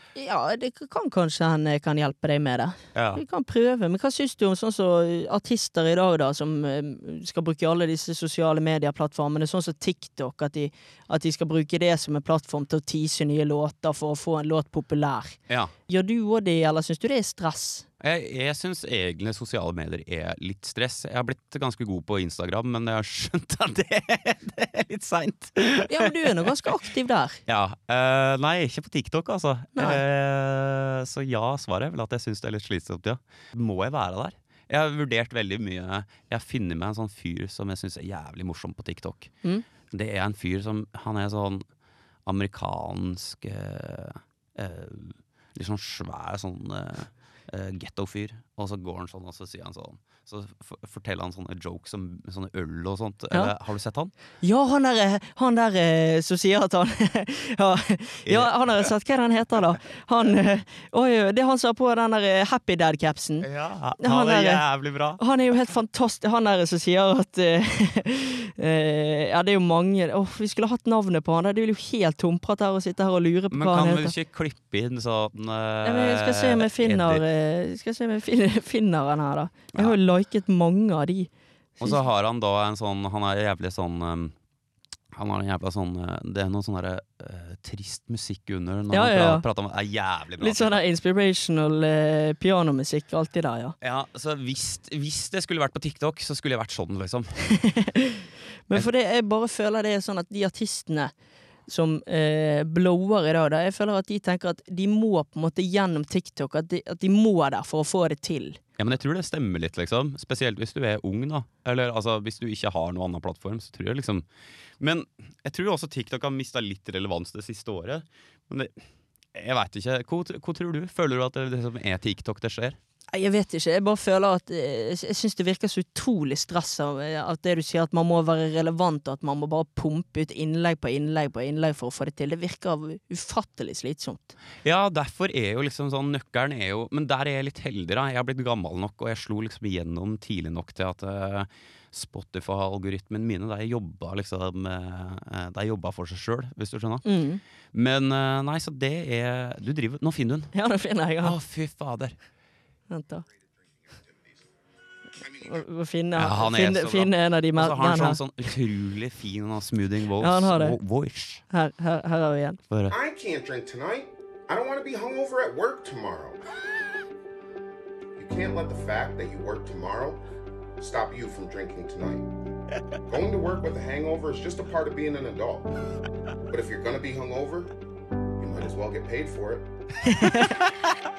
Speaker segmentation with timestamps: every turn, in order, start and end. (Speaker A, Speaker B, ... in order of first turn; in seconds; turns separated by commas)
Speaker A: 0.1-17.9, Speaker B: 2.9-3.2, Speaker B: 18.0-26.3, Speaker A: 25.8-27.4, Speaker B: 27.4-41.6, Speaker A: 29.8-30.0, Speaker B: 42.2-54.1, Speaker A: 54.4-63.5, Speaker B: 58.2-58.8, Speaker B: 63.4-65.2, Speaker A: 64.0-64.6, Speaker A: 65.2-74.1, Speaker B: 73.5-77.2, Speaker A: 75.8-81.3, Speaker B: 81.8-84.3, Speaker B: 85.1-90.8, Speaker A: 88.9-89.5, Speaker A: 90.4-93.7, Speaker B: 93.8-97.5, Speaker A: 97.7-98.1, Speaker A: 98.7-101.1, Speaker A: 101.7-108.6, Speaker B: 108.8-114.2, Speaker B: 114.8-118.8, Speaker B: 119.3-122.8, Speaker A: 123.1-134.3, Speaker B: 134.6-147.0, Speaker A: 147.0-147.4, Speaker B: 147.7-150.5, Speaker A: 150.5-151.3, Speaker B: 151.2-152.2, Speaker A: 152.9-153.2, Speaker C: 155.2-155.5, Speaker A: 155.4-158.2, Speaker B: 156.2-161.4, Speaker A: 160.2-160.8, Speaker A: 161.5-162.6, Speaker B: 162.7-162.9, Speaker C: 162.9-166.5, Speaker C: 168.2-170.2, Speaker C: 170.8-172.4, Speaker C: 173.1-175.8, Speaker C: 176.4-177.8, Speaker C: 178.4-179.7, Speaker A: 180.1-180.6